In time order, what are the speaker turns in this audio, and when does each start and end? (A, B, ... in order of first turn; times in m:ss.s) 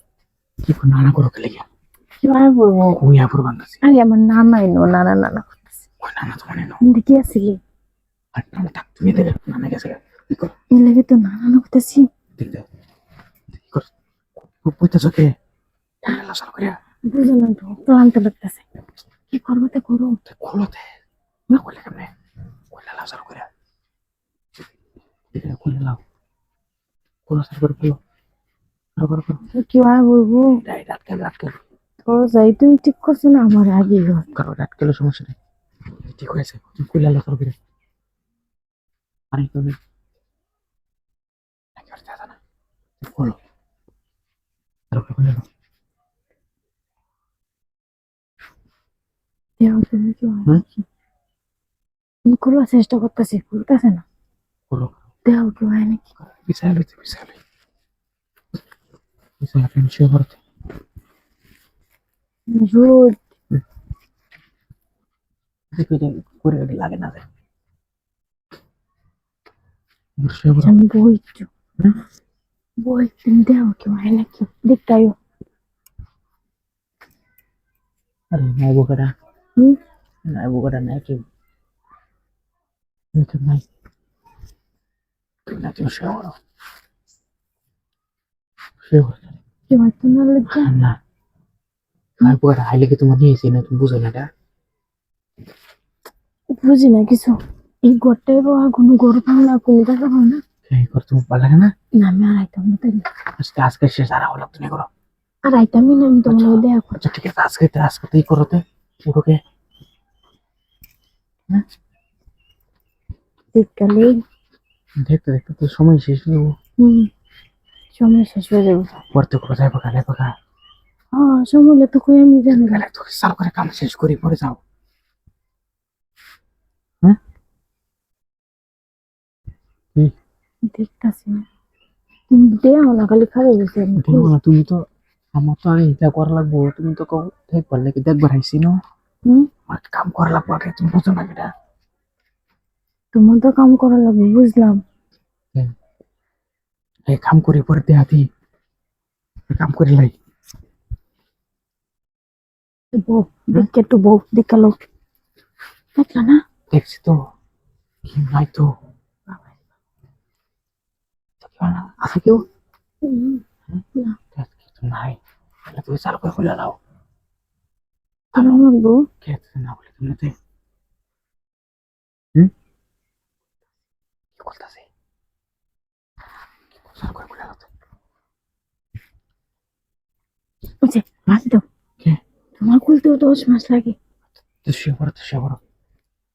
0:00.6-0:01.7 A
0:02.2-0:03.0 B
0:03.0-0:03.8 A
0:03.8-0:05.6 B
0:06.0-0:06.8 A
0:06.8-0:07.6 B
0:08.3-0:10.5 A
0:10.7-0:12.1 B
0:12.4-0:12.7 A
0:13.6-0:13.9 A
0:14.5-0:15.3 A
0:16.0-0:16.8 A
0:17.1-0:18.6 B
0:19.3-0:20.2 B
0:20.2-0:20.8 A
0:21.5-0:22.1 A
0:22.7-0:23.5 A
0:25.3-0:26.0 A
0:27.3-0:28.0 A
0:29.0-0:29.4 A
0:29.5-0:30.5 B
0:30.6-0:31.6 A
0:32.0-0:34.3 B
0:34.3-0:35.4 A
0:36.0-0:37.6 A
0:39.3-0:39.8 A
0:41.8-0:42.4 A
0:43.0-0:43.4 A
0:44.9-0:45.4 A
0:49.6-0:50.8 B
0:52.3-0:54.0 B
0:54.7-0:55.0 A
0:55.2-0:56.0 B
0:56.4-0:57.4 A
0:59.4-1:00.4 A
1:02.5-1:03.2 B
1:05.7-1:07.2 A
1:10.2-1:10.7 A
1:10.6-1:11.5 B
1:12.8-1:15.2 B
1:18.3-1:19.1 A
1:20.3-1:21.2 A
1:23.2-1:23.6 A
1:25.5-1:26.4 A
1:28.8-1:29.4 A
1:29.7-1:30.7 B
1:30.5-1:31.0 A
1:32.2-1:34.3 A
1:36.5-1:40.4 B
1:40.7-1:41.7 A
1:42.0-1:43.1 B
1:43.4-1:44.9 A
1:45.5-1:47.0 B
1:46.3-1:49.4 A
1:53.5-1:54.2 B
1:55.0-1:56.5 A
1:56.8-1:57.1 B
1:58.0-1:59.0 B
1:59.1-2:00.4 A
2:01.1-2:02.8 B
2:02.5-2:04.6 A
2:10.7-2:11.4 B
2:12.3-2:14.3 B
2:14.0-2:18.8 A
2:19.2-2:19.5 B
2:19.7-2:21.5 A
2:23.1-2:24.8 B
2:27.1-2:28.3 A
2:29.5-2:30.1 A
2:32.9-2:34.8 B
2:36.0-2:36.4 B
2:36.7-2:37.2 A
2:38.0-2:38.7 A
2:41.4-2:42.4 A
2:43.0-2:43.4 B
2:44.4-2:46.8 A
2:48.4-2:48.6 A
2:48.4-2:49.1 B
2:49.2-2:50.3 A
2:54.4-2:54.8 A
2:56.9-2:57.7 A
3:00.8-3:01.6 B
3:02.6-3:04.0 B
3:04.6-3:05.6 A